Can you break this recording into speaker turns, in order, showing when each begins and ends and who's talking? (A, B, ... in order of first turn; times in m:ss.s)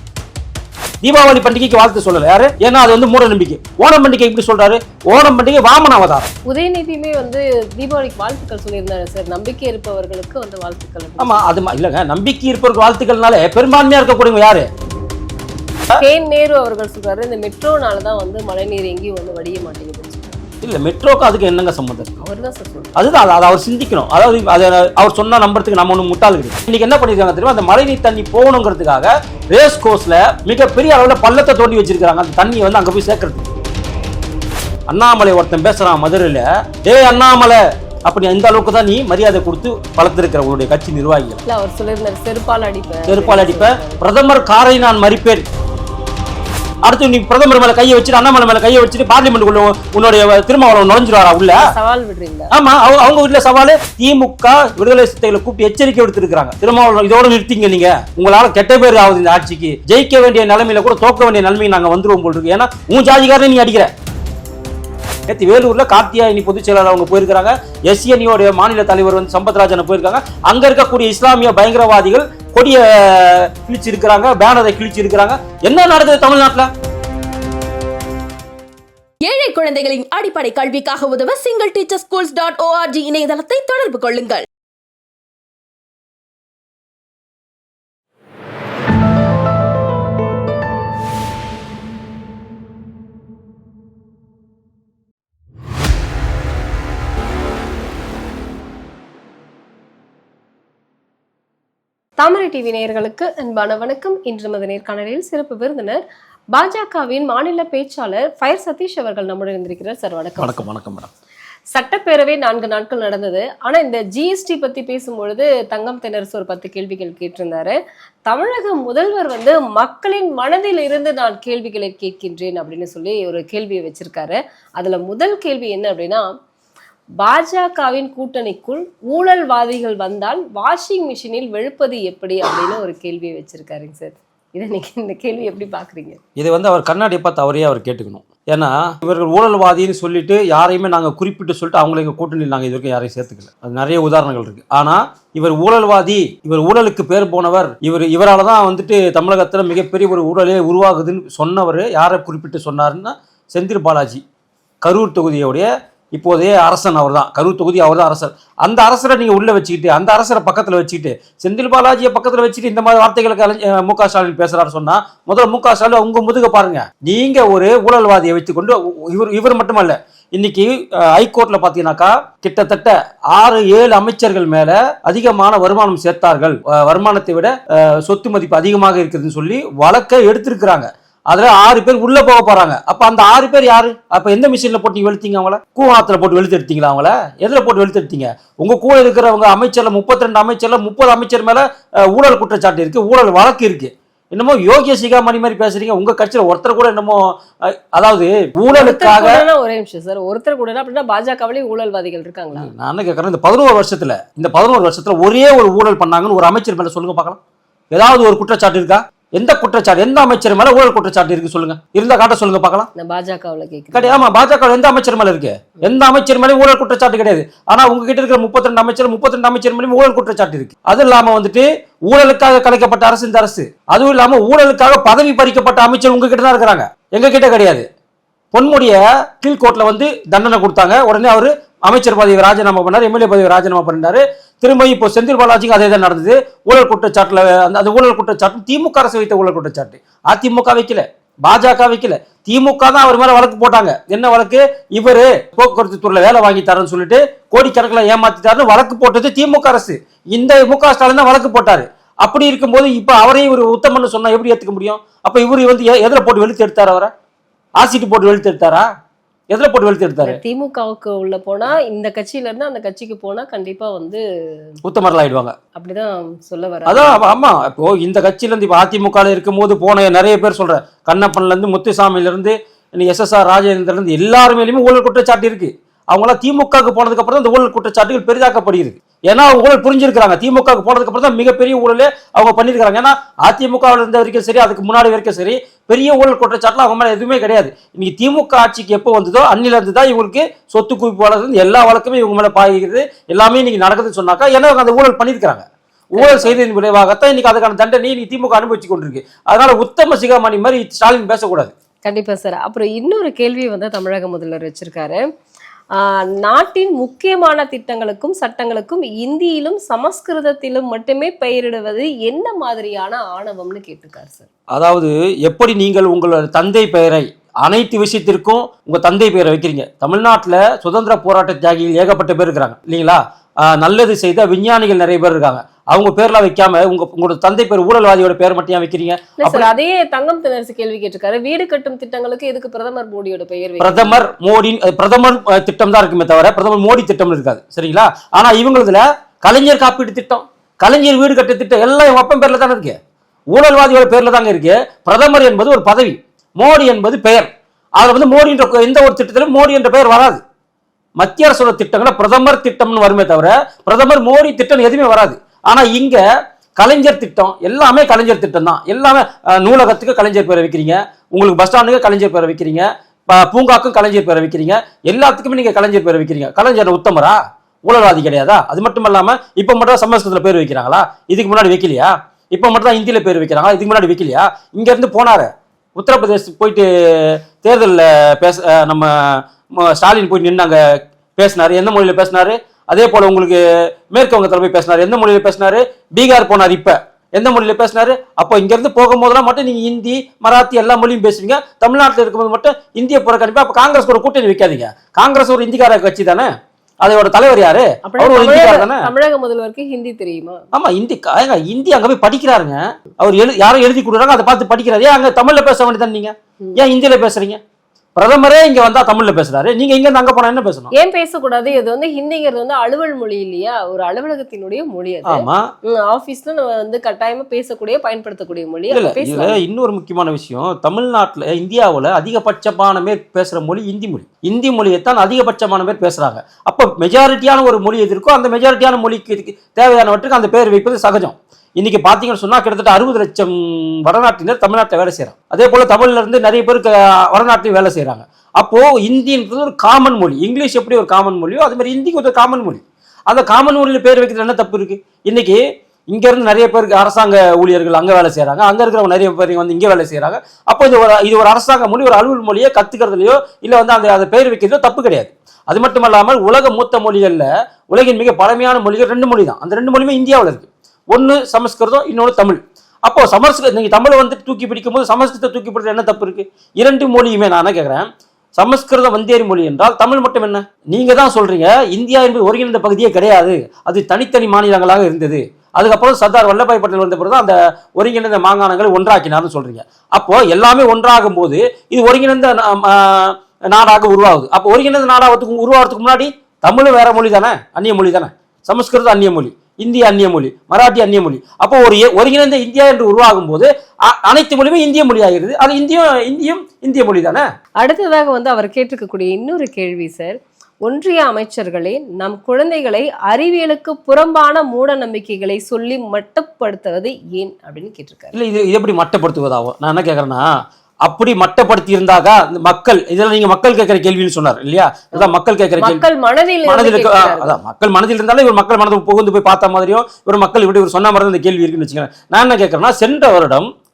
0:01.0-0:06.3 A
0:06.5-0:11.5 B
0:11.2-0:14.7 A
0:16.0-0:20.4 B
0:20.6-0:22.2 A
0:22.2-0:23.0 B
0:23.0-0:33.5 A
0:34.9-0:41.4 A
0:41.4-0:44.0 B
0:43.1-0:45.4 A
0:46.8-0:51.6 A
0:51.6-0:52.5 B
0:52.5-1:03.9 A
1:05.3-1:16.7 A
1:19.2-1:24.4 C
1:42.2-1:46.0 B
1:46.5-1:50.7 B
1:50.4-1:51.1 A
1:51.7-1:57.7 B
1:58.3-2:06.2 B
2:07.2-2:16.2 B
2:16.4-2:34.2 A
2:34.8-3:19.4 A
3:18.7-3:22.7 B
3:22.6-3:27.4 A
3:27.9-3:32.9 A
3:33.0-3:34.2 B
3:33.9-3:47.9 A
3:48.5-4:17.1 A
4:17.8-4:18.8 A
4:19.5-4:20.4 A
4:20.2-4:24.2 B
4:24.8-4:25.5 A
4:25.7-4:27.3 B
4:26.9-5:01.7 A
4:56.2-4:56.6 B
5:02.0-5:05.2 B
5:05.9-5:14.4 B
5:14.7-5:29.7 A
5:29.4-5:34.2 B
5:33.8-5:43.0 A
5:43.5-5:50.4 A
5:51.2-5:56.2 A
5:56.8-6:20.8 A
6:21.4-6:39.1 A
6:38.0-6:40.6 B
6:40.7-6:47.6 A
6:48.2-6:50.9 A
6:50.9-6:59.6 B
6:55.3-6:55.7 A
6:58.9-7:25.6 A
7:26.1-8:17.4 A
8:17.8-8:28.4 B
8:28.3-8:30.5 A
8:31.0-8:36.0 A
8:35.1-8:37.6 B
8:36.6-8:43.7 A